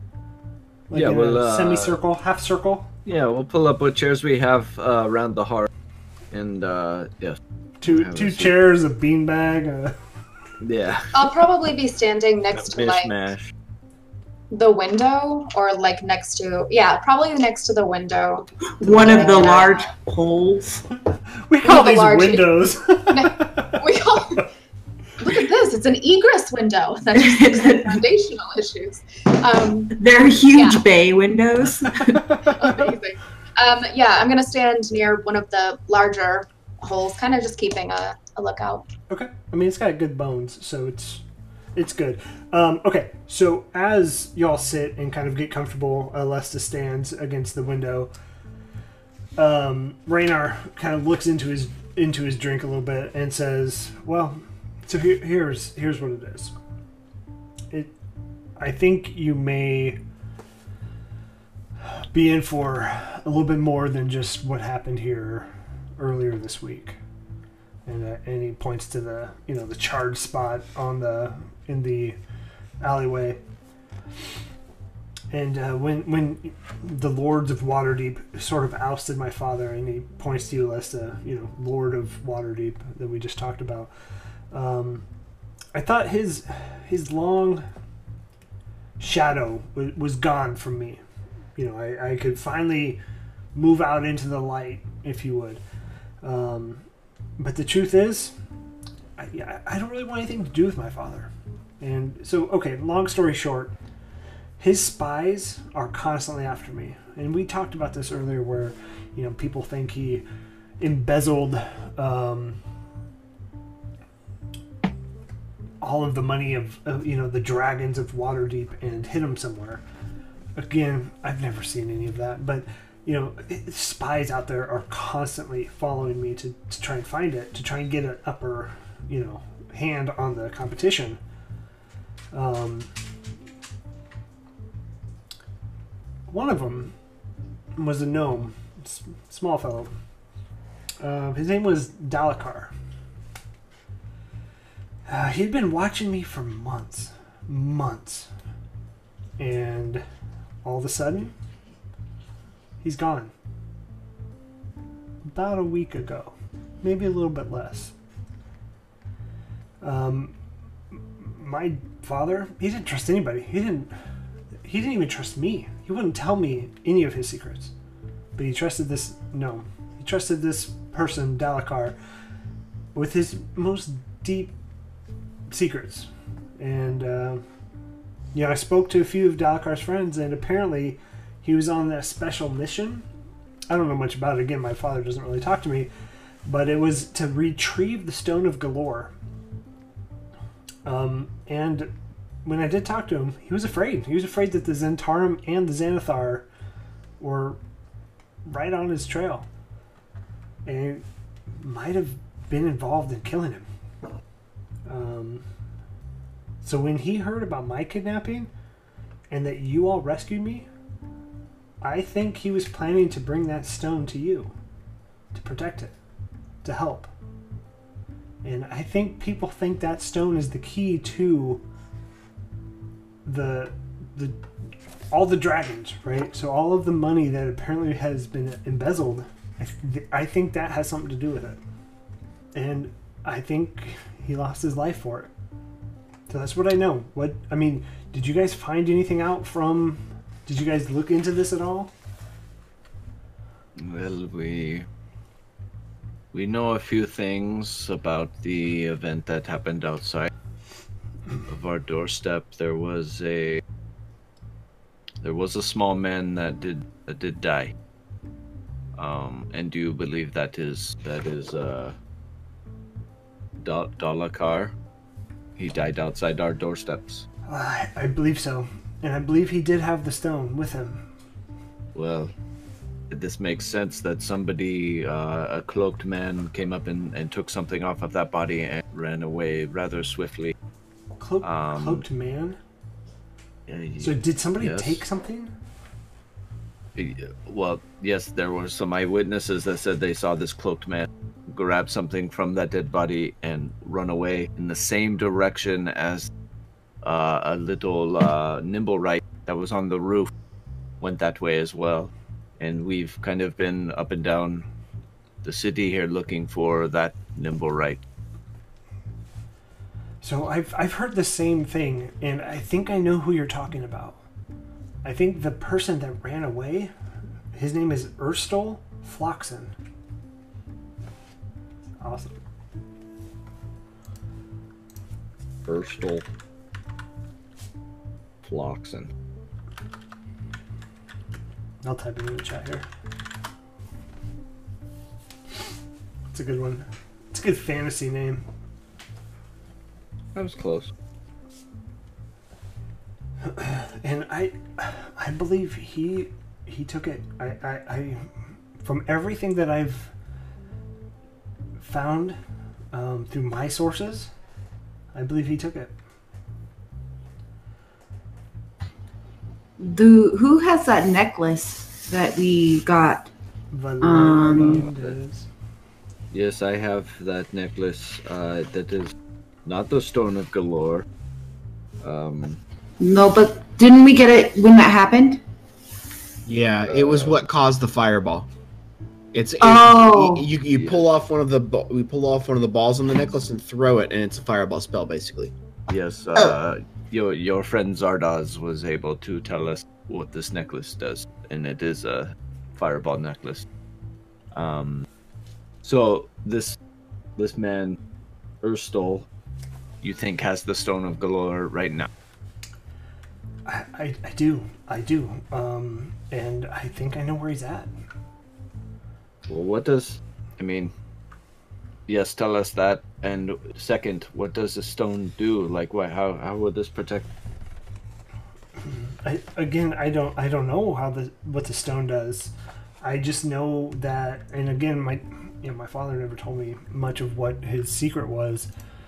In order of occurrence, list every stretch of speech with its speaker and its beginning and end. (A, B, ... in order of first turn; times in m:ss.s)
0:00.9-0:02.9 A
0:00.9-0:02.0 B
0:03.0-0:05.7 B
0:06.3-0:08.6 B
0:07.8-0:10.0 A
0:10.6-0:11.1 B
0:11.1-0:13.1 C
0:12.5-0:13.5 B
0:14.5-0:19.9 C
0:18.8-0:20.8 D
0:21.3-0:23.8 A
0:21.6-0:24.5 C
0:25.2-0:30.0 C
0:27.2-0:28.0 D
0:29.9-0:32.3 D
0:30.5-0:30.8 C
0:32.1-0:32.5 A
0:32.3-0:38.8 C
0:39.1-0:41.2 A
0:41.7-0:48.1 A
0:49.4-0:56.5 A
0:58.6-1:00.0 A
1:02.1-1:07.0 A
1:07.8-1:12.2 A
1:12.8-1:13.4 A
1:15.3-1:23.9 A
1:24.5-1:25.0 A
1:25.7-1:27.6 A
1:29.0-1:31.0 A
1:31.6-1:33.0 A
1:33.5-1:35.6 A
1:36.2-1:36.8 A
1:37.4-1:38.3 A
1:39.2-1:43.7 A
1:44.6-1:50.2 A
1:50.8-1:52.6 A
1:55.8-1:59.8 A
2:00.6-2:11.2 A
2:12.3-2:12.9 A
2:16.3-2:16.9 A
2:17.8-2:19.9 A
2:21.0-2:22.7 A
2:25.1-2:28.3 A
2:29.4-2:30.0 A
2:30.6-2:31.3 A
2:32.8-2:33.3 A
2:35.2-2:37.9 A
2:39.8-2:40.3 A
2:41.2-2:43.9 A
2:44.6-2:47.7 A
2:48.4-2:52.0 A
2:52.9-2:54.5 A
2:55.5-2:57.4 A
2:58.3-3:03.0 A
3:03.7-3:05.9 A
3:06.4-3:09.1 A
3:10.8-3:11.9 A
3:12.4-3:16.5 A
3:17.2-3:17.6 A
3:18.4-3:19.5 A
3:20.6-3:21.0 A
3:21.6-3:23.6 A
3:24.8-3:25.4 A
3:26.6-3:28.5 A
3:29.3-3:30.7 A
3:31.8-3:34.5 A
3:35.3-3:36.0 A
3:36.6-3:37.1 A
3:38.4-3:41.6 A
3:43.2-3:44.4 A
3:45.1-3:51.6 A
3:52.5-3:55.3 A
3:56.3-4:01.9 A
4:03.8-4:04.8 B
4:06.3-4:10.3 B
4:11.5-4:13.6 B
4:15.2-4:17.7 B
4:19.0-4:21.9 B
4:23.6-4:24.7 B
4:25.6-4:27.2 B
4:27.5-4:31.0 A
4:31.9-4:32.3 B
4:33.1-4:40.5 B
4:41.2-4:42.6 A
4:41.4-4:42.0 B
4:43.7-4:45.0 B
4:44.0-4:45.5 A
4:46.9-4:56.3 B
4:57.0-5:00.3 B
5:01.0-5:04.6 B
5:05.4-5:08.0 B
5:10.2-5:14.2 A
5:15.0-5:16.9 A
5:17.5-5:19.7 A
5:22.0-5:22.4 A
5:25.6-5:26.2 B
5:28.4-5:29.1 B
5:31.8-5:32.8 A
5:36.3-5:38.4 A
5:40.3-5:40.9 B
5:43.4-5:48.3 A
5:48.8-5:50.1 A
5:51.8-5:52.4 A
5:52.9-5:54.3 A
5:55.1-5:55.9 A
5:59.8-6:03.3 D
6:03.7-6:05.5 A
6:04.0-6:04.9 D
6:04.2-6:05.1 B
6:06.3-6:09.1 B
6:09.6-6:11.0 B
6:12.0-6:12.6 B
6:13.0-6:15.4 D
6:16.4-6:18.5 E
6:16.9-6:17.4 B
6:19.3-6:25.5 E
6:19.6-6:20.5 D
6:20.7-6:21.0 B
6:25.9-6:33.6 B
6:34.5-6:35.0 B
6:35.8-6:36.8 B
6:37.4-6:38.0 B
6:38.6-6:39.3 B
6:40.0-6:42.1 B
6:43.6-6:47.9 A
6:49.5-6:50.9 B
6:52.1-6:57.2 B
6:58.9-7:08.7 A